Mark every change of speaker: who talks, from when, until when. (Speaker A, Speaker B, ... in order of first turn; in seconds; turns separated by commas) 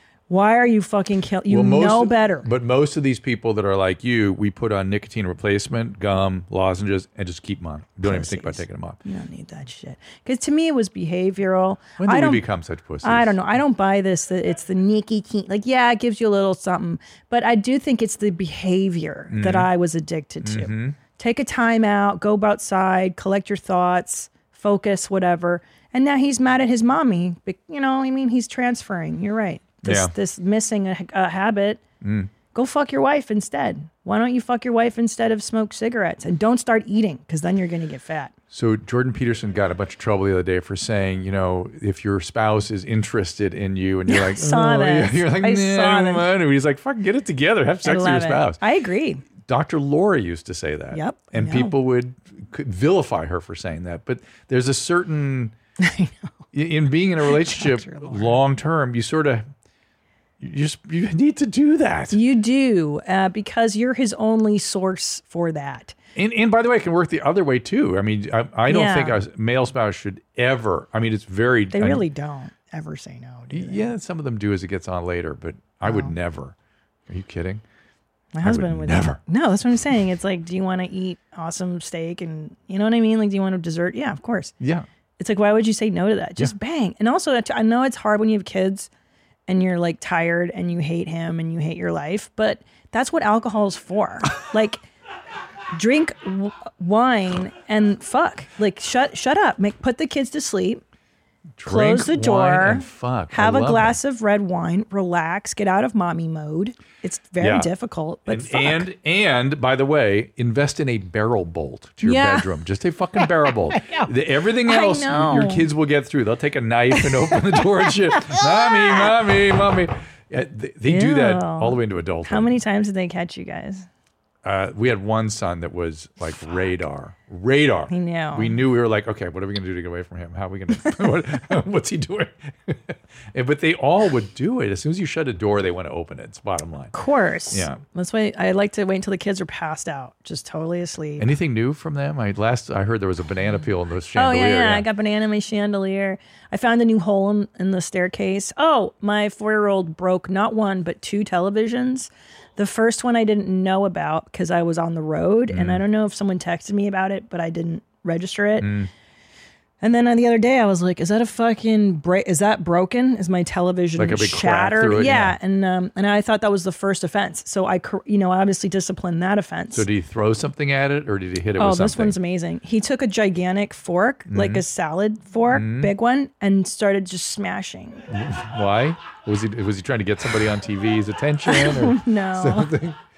Speaker A: 0.3-2.5, Speaker B: 1.5-9.0, Speaker A: 8.0-12.4, Speaker B: 12.0-13.3, Speaker A: 13.0-31.8, Speaker B: 19.3-19.7, Speaker B: 20.4-21.0, Speaker B: 29.8-30.1, Speaker B: 32.0-32.3, Speaker A: 32.5-38.3, Speaker B: 38.5-48.6, Speaker A: 44.1-46.3, Speaker A: 47.8-49.2, Speaker B: 49.5-55.5, Speaker A: 50.9-51.8, Speaker A: 55.8-56.3, Speaker B: 56.5-59.5, Speaker A: 57.2-58.4, Speaker B: 60.4-62.2, Speaker A: 62.1-66.0, Speaker B: 66.2-72.0, Speaker A: 68.7-69.2, Speaker A: 71.7-73.9, Speaker B: 73.5-76.5, Speaker A: 75.8-76.1, Speaker B: 77.1-77.6, Speaker A: 78.3-84.5, Speaker B: 78.4-79.2, Speaker B: 84.6-84.9, Speaker A: 85.2-88.9, Speaker A: 89.5-94.8, Speaker A: 95.7-100.8, Speaker B: 101.6-104.0, Speaker A: 101.6-108.8, Speaker B: 107.4-107.7, Speaker B: 108.3-122.5, Speaker A: 112.0-112.5, Speaker A: 113.2-115.7, Speaker A: 116.9-119.2, Speaker A: 120.9-123.9, Speaker B: 124.5-136.9, Speaker A: 127.9-128.6, Speaker A: 136.9-141.3, Speaker B: 137.5-137.8, Speaker B: 141.2-144.9, Speaker A: 144.1-158.7, Speaker B: 155.5-155.8, Speaker B: 158.6-158.9, Speaker A: 159.8-169.9, Speaker B: 164.0-165.4, Speaker B: 169.7-172.2, Speaker A: 171.6-178.1, Speaker B: 174.3-174.7, Speaker B: 175.5-175.9, Speaker B: 178.1-183.0, Speaker A: 181.4-182.7